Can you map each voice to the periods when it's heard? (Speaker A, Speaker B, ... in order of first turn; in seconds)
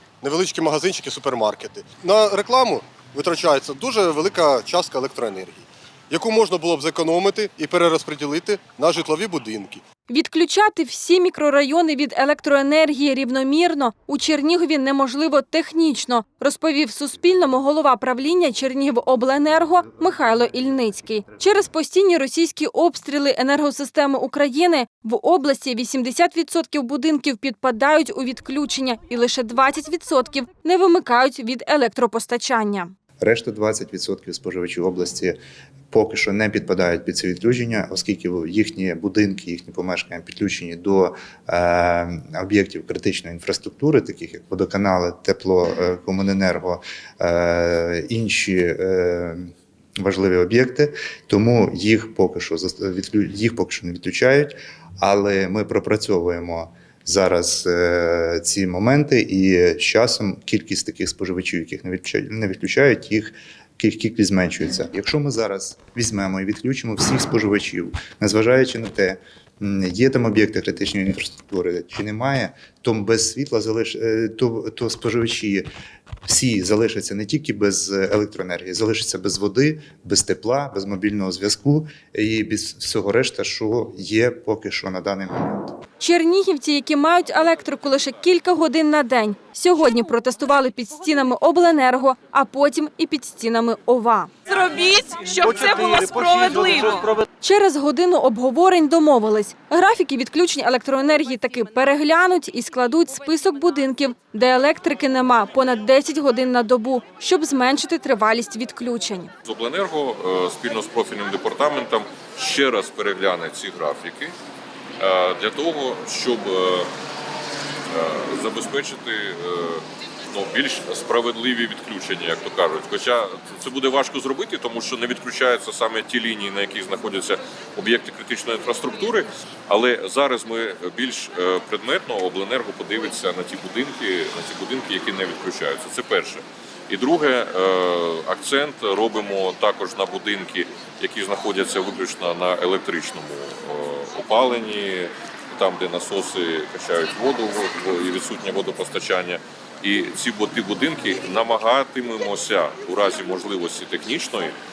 Speaker A: 0.2-9.8
Speaker B: 10.1-32.9, 86.0-94.3, 97.4-109.3
Speaker C: 33.2-35.4, 35.9-75.7, 76.2-85.8
Speaker D: 94.5-97.2
Speaker E: 109.4-114.3, 115.0-116.9, 117.9-154.6